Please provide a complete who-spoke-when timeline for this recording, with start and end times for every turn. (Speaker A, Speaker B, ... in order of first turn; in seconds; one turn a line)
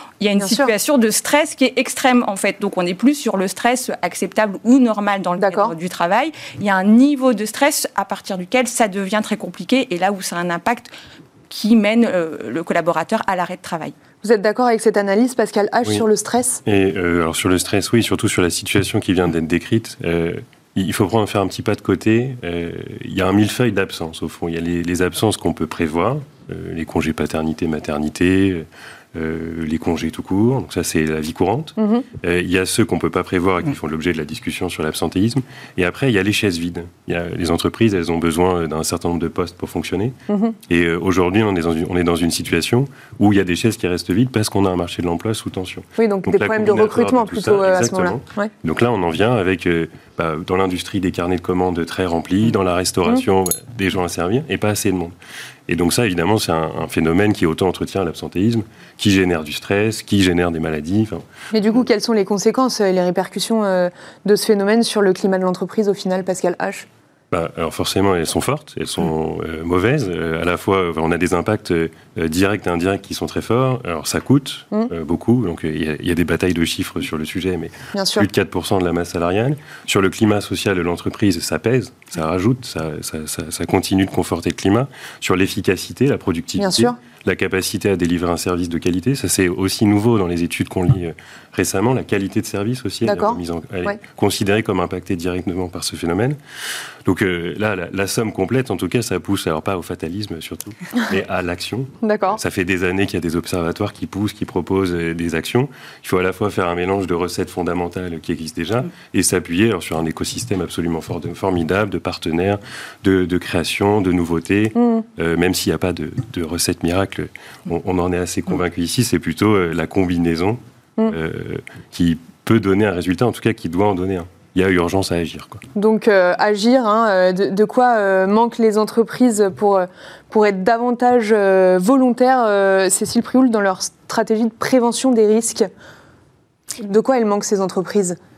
Speaker A: 0.2-10.9
Speaker B: 0.4-0.7
Speaker B: 5.4-5.7
Speaker A: 11.5-13.9
Speaker B: 14.2-16.6
Speaker C: 16.6-40.2
Speaker B: 31.8-32.0
Speaker B: 40.3-40.6
Speaker C: 40.7-55.1
Speaker B: 46.0-48.5
Speaker C: 55.7-61.2
Speaker B: 61.5-66.9
Speaker C: 67.3-96.4
Speaker B: 77.9-78.3
Speaker B: 86.6-87.0
Speaker B: 93.0-94.0
Speaker C: 97.0-125.6
Speaker B: 102.0-102.4
Speaker B: 114.8-115.0
Speaker B: 125.8-135.7
Speaker B: 136.8-138.2